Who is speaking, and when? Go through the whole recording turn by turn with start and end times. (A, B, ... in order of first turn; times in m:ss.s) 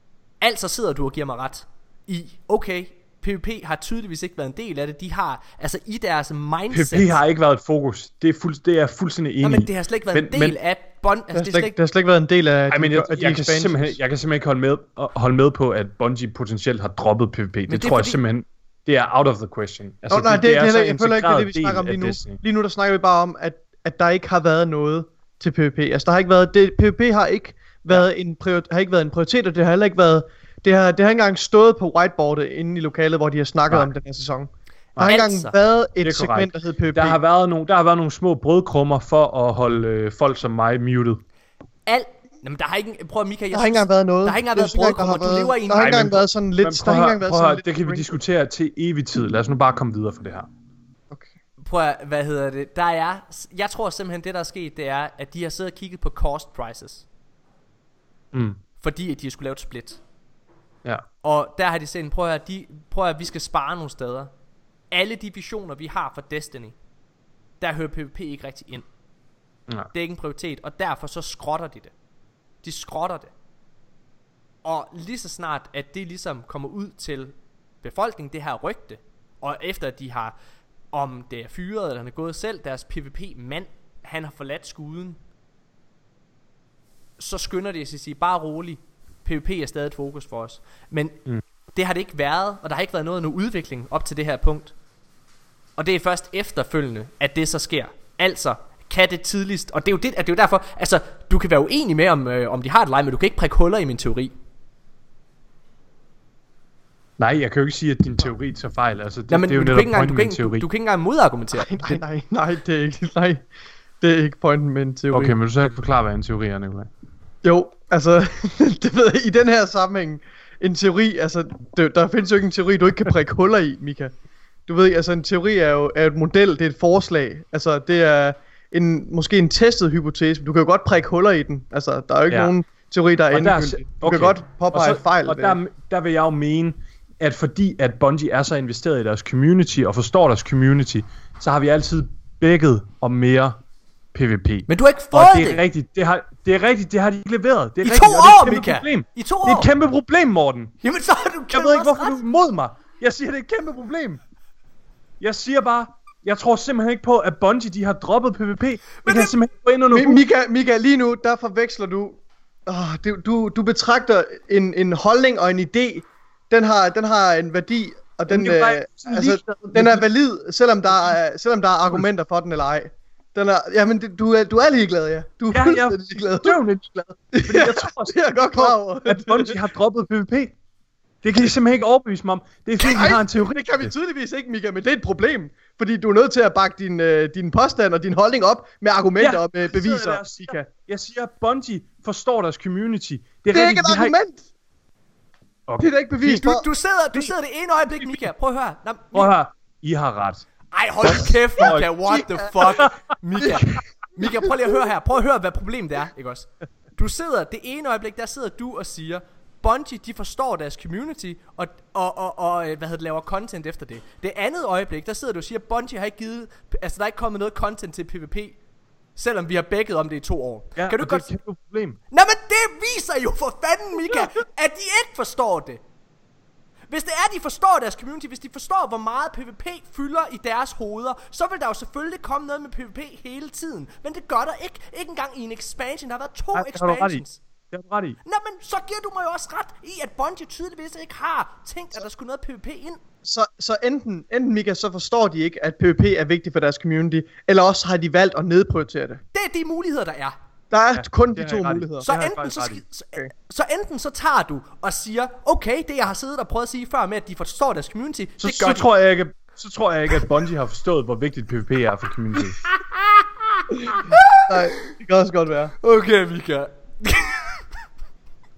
0:00.4-0:07.2 A
0:06.7-0:10.6 B
0:09.4-0:11.7 A
0:11.3-0:14.0 C
0:12.7-0:22.4 B
0:17.7-0:18.2 A
0:20.1-0:34.5 C
0:35.0-0:37.2 C
0:35.0-0:35.5 A
0:36.0-0:41.2 B
0:41.9-0:46.0 A
0:43.5-0:48.1 C
0:45.8-0:50.5 B
0:51.6-0:57.1 A
0:58.3-0:58.6 B
0:58.8-1:00.0 A
1:01.2-1:04.3 A
1:04.9-1:06.8 A
1:07.6-1:08.9 A
1:09.9-1:11.9 A
1:12.6-1:13.3 A
1:14.6-1:20.4 A
1:20.9-1:25.2 A
1:27.2-1:34.7 A
1:35.8-1:44.3 A
1:47.2-1:50.7 B
1:49.3-1:52.0 A
1:51.5-1:53.4 C
1:54.0-1:55.4 C
1:55.1-1:56.9 B
1:57.4-2:04.1 C
2:04.7-2:15.6 C
2:13.3-2:23.6 B
2:24.1-2:30.8 B
2:24.7-2:25.6 A
2:27.8-2:29.7 A
2:30.8-2:32.2 A
2:31.5-2:34.2 B
2:35.2-2:40.2 B
2:39.0-2:39.3 A
2:39.9-2:56.6 C
2:48.3-2:50.0 B
2:55.5-3:00.5 B
2:57.3-2:59.6 C
3:01.2-3:03.9 B
3:02.8-3:10.7 C
3:09.2-3:14.2 B
3:13.5-3:14.4 C
3:15.8-3:16.6 C
3:16.2-3:19.3 A
3:19.1-3:20.4 B
3:20.7-3:38.6 A
3:21.0-3:21.9 B
3:21.6-3:22.7 C
3:39.2-3:41.3 A
3:40.8-3:42.0 B
3:42.1-3:45.8 A
3:46.9-3:57.4 A
3:56.5-3:58.2 B
3:58.2-4:03.0 A
4:03.2-4:09.2 C
4:09.3-4:10.4 A
4:10.7-4:12.1 C
4:10.9-4:12.8 B
4:12.0-4:18.9 A
4:18.4-4:22.6 B
4:23.9-4:24.6 A
4:24.5-4:25.7 C
4:25.8-4:27.7 A